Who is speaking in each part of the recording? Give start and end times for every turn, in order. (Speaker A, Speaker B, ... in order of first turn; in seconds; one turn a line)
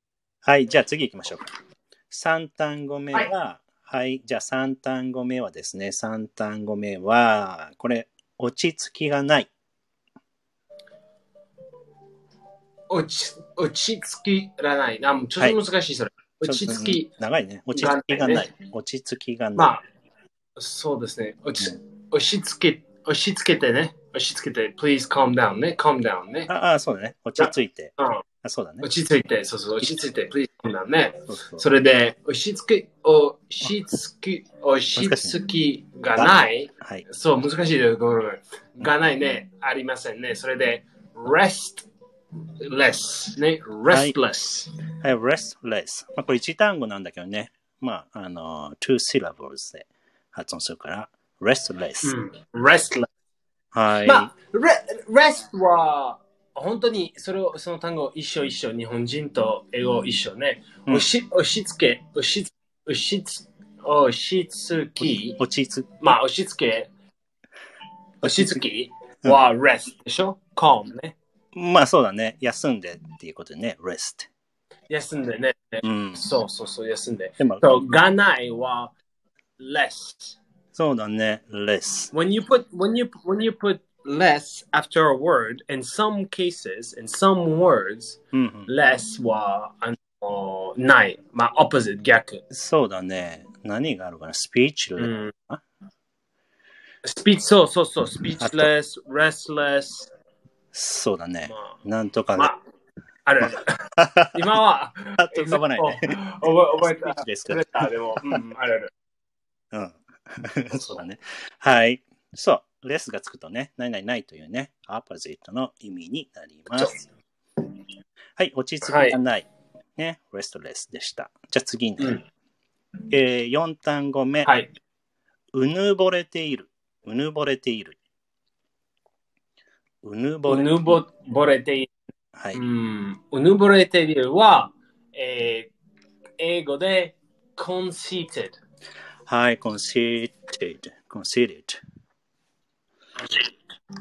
Speaker A: 0.4-1.5
Speaker A: 2.1-9.5
Speaker B: 12.9-17.1
Speaker A: 16.4-19.7
Speaker B: 17.7-18.5
Speaker B: 19.6-19.8
Speaker B: 20.6-26.5
Speaker A: 26.5-28.9
Speaker B: 27.4-28.2
Speaker B: 28.8-41.9
Speaker A: 31.3-31.6
Speaker A: 35.0-35.4
Speaker A: 36.1-37.0
Speaker B: 42.6-44.7
Speaker A: 43.9-44.1
Speaker A: 45.0-52.1
Speaker B: 52.0-53.1
Speaker A: 53.7-54.3
Speaker B: 54.0-65.4
Speaker A: 65.0-66.0
Speaker B: 66.0-66.9
Speaker A: 68.2-68.6
Speaker B: 68.2-71.2
Speaker A: 71.5-74.3
Speaker B: 74.9-78.9
Speaker A: 75.8-76.2
Speaker A: 77.4-77.6
Speaker B: 79.6-80.4
Speaker A: 80.7-82.1
Speaker B: 82.1-92.4
Speaker A: 88.3-88.7
Speaker A: 92.5-95.6
Speaker B: 95.0-95.3
Speaker B: 97.0-100.1
Speaker A: 98.4-98.7
Speaker A: 100.7-102.5
Speaker B: 101.5-101.8
Speaker B: 103.2-108.9
Speaker A: 104.0-104.5
Speaker A: 105.2-106.2
Speaker A: 106.8-108.4
Speaker A: 109.7-117.0
Speaker A: 118.4-122.2
Speaker B: 118.8-119.2
Speaker A: 123.1-124.6
Speaker B: 124.4-124.7
Speaker A: 125.5-128.0
Speaker A: 130.0-131.0
Speaker B: 130.5-131.9
Speaker A: 132.4-132.6
Speaker B: 132.5-135.7
Speaker B: 136.4-138.6
Speaker A: 139.3-141.8
Speaker B: 143.2-143.5